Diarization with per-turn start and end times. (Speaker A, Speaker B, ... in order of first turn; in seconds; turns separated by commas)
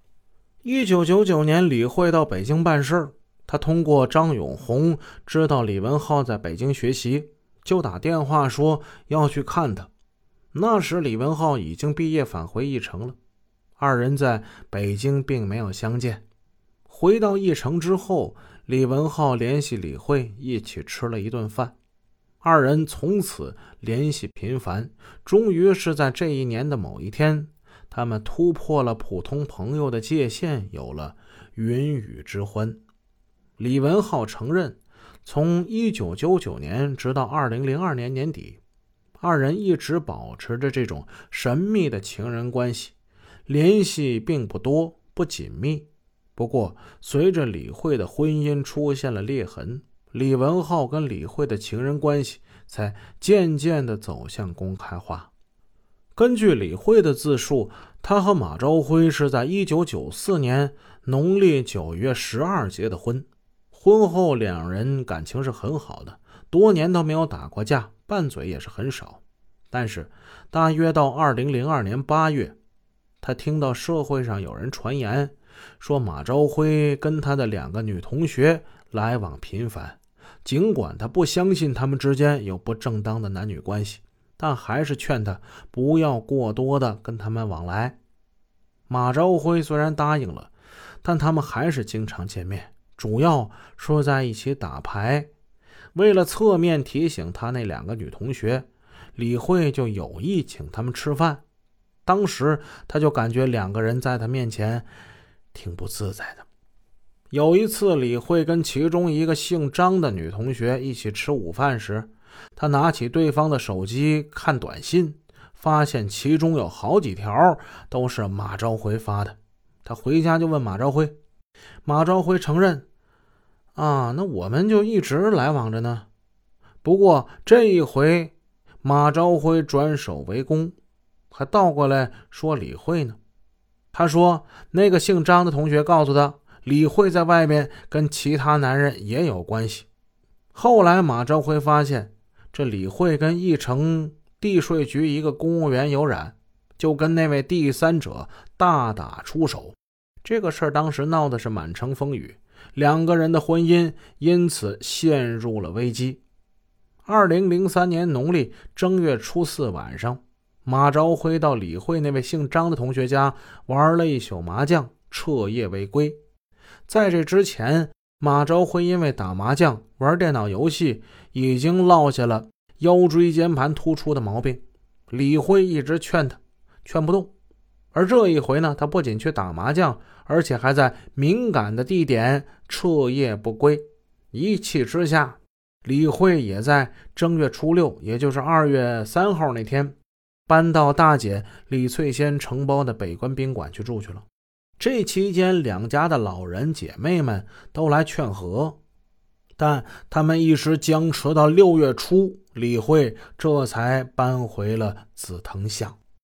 Speaker A: 0.6-9.9, Speaker A: 10.5-13.2, Speaker A: 13.8-16.2, Speaker A: 16.9-21.8, Speaker A: 22.4-32.8, Speaker A: 33.6-38.6, Speaker A: 39.2-43.0, Speaker A: 43.5-55.3, Speaker A: 56.2-72.6, Speaker A: 73.2-88.0, Speaker A: 88.9-90.5, Speaker A: 91.0-95.3, Speaker A: 95.9-101.4, Speaker A: 102.1-104.9, Speaker A: 105.5-106.5, Speaker A: 107.3-121.2, Speaker A: 121.8-122.9, Speaker A: 123.8-126.1, Speaker A: 126.8-130.8, Speaker A: 131.3-133.2, Speaker A: 133.9-139.9, Speaker A: 140.5-156.2, Speaker A: 157.1-166.2, Speaker A: 166.9-177.3, Speaker A: 177.9-190.0, Speaker A: 190.5-194.3, Speaker A: 194.8-198.8, Speaker A: 199.6-206.0